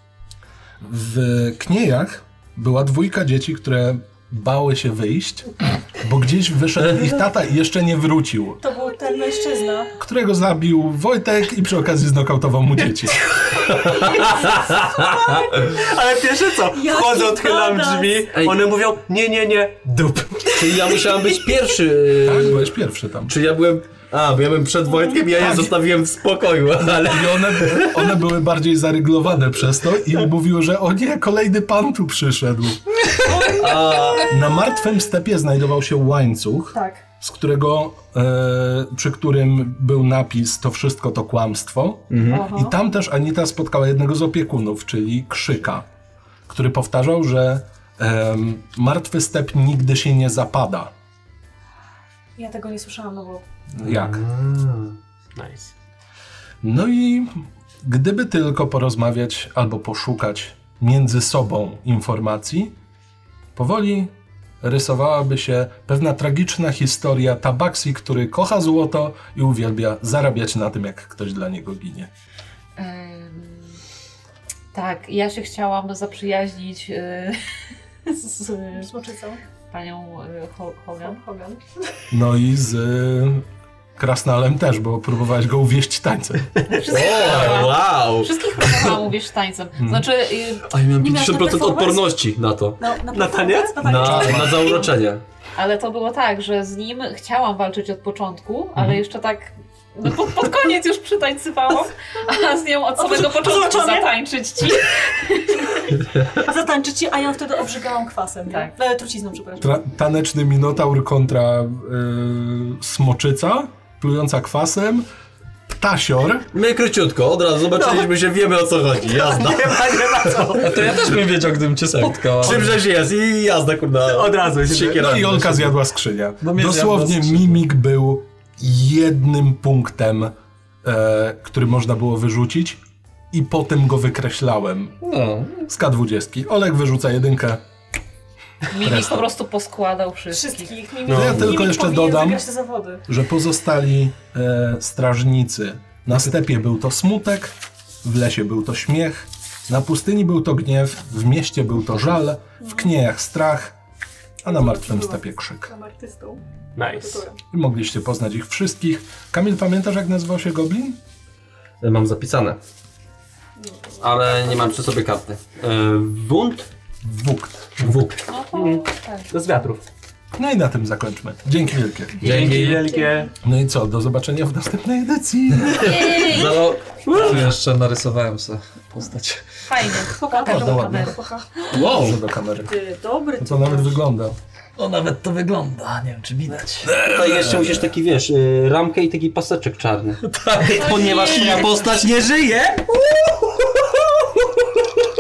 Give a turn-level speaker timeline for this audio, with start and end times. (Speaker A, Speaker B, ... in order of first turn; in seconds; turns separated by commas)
Speaker A: 0.8-8.7, Speaker B: 8.6-9.9, Speaker A: 10.0-13.3, Speaker B: 13.5-15.8, Speaker C: 13.6-15.0, Speaker D: 15.7-20.8, Speaker B: 16.7-18.3, Speaker C: 20.6-22.8, Speaker A: 22.2-23.4, Speaker C: 23.3-28.1, Speaker B: 24.9-25.2, Speaker A: 25.3-25.8, Speaker A: 27.0-33.0, Speaker B: 33.3-34.2, Speaker E: 33.4-34.1, Speaker C: 33.5-34.4, Speaker A: 34.3-45.9, Speaker B: 36.7-37.0, Speaker C: 42.1-42.5, Speaker B: 42.3-42.8, Speaker A: 46.5-50.9, Speaker B: 52.4-53.4, Speaker A: 53.7-54.2, Speaker C: 53.8-54.9, Speaker D: 55.4-55.7, Speaker A: 56.6-62.7, Speaker A: 63.6-72.1, Speaker F: 72.8-73.8, Speaker F: 74.7-77.4, Speaker B: 78.1-79.4, Speaker F: 79.7-81.2, Speaker B: 81.0-81.6, Speaker A: 82.1-83.5, Speaker A: 84.0-86.6, Speaker F: 86.7-90.7, Speaker C: 86.8-88.3, Speaker A: 89.8-90.1, Speaker C: 90.7-92.8, Speaker B: 91.0-92.1, Speaker B: 92.8-94.9, Speaker D: 93.1-94.4, Speaker C: 93.8-95.2, Speaker A: 94.0-94.7, Speaker F: 95.6-105.6, Speaker B: 103.0-104.1, Speaker B: 106.0-109.8, Speaker A: 109.6-115.1, Speaker A: 115.7-116.5, Speaker C: 116.5-121.2, Speaker D: 117.8-118.1, Speaker D: 119.1-120.8, Speaker E: 120.6-122.8, Speaker C: 121.9-125.7, Speaker D: 122.5-122.7, Speaker D: 124.1-125.3, Speaker A: 125.0-132.8, Speaker E: 126.4-127.6, Speaker A: 133.3-135.0, Speaker E: 135.0-135.7, Speaker A: 135.7-137.6, Speaker F: 138.7-140.8, Speaker A: 138.8-139.3, Speaker B: 140.3-143.1, Speaker D: 141.1-141.6, Speaker A: 141.1-142.4, Speaker A: 143.1-153.8, Speaker B: 152.6-152.9, Speaker A: 154.4-155.7, Speaker B: 154.5-157.4, Speaker D: 156.8-157.2, Speaker A: 157.5-161.0, Speaker C: 161.8-162.6, Speaker B: 163.6-164.8, Speaker C: 164.0-166.7, Speaker A: 167.0-168.1, Speaker C: 167.8-168.2, Speaker F: 168.3-169.4, Speaker D: 168.5-169.8, Speaker A: 170.4-172.3, Speaker D: 172.2-173.3, Speaker C: 172.2-172.9, Speaker B: 172.7-173.3, Speaker A: 173.4-176.2, Speaker C: 175.7-177.4, Speaker F: 175.8-176.7, Speaker D: 177.1-177.5, Speaker E: 177.1-179.5, Speaker F: 179.7-181.2, Speaker B: 180.1-181.5, Speaker A: 180.4-181.2, Speaker C: 181.7-182.2, Speaker A: 181.7-182.8, Speaker B: 182.7-184.0, Speaker A: 183.4-184.4, Speaker E: 184.8-187.8, Speaker C: 186.9-193.1, Speaker E: 190.3-191.4, Speaker F: 190.8-191.7, Speaker D: 191.3-191.7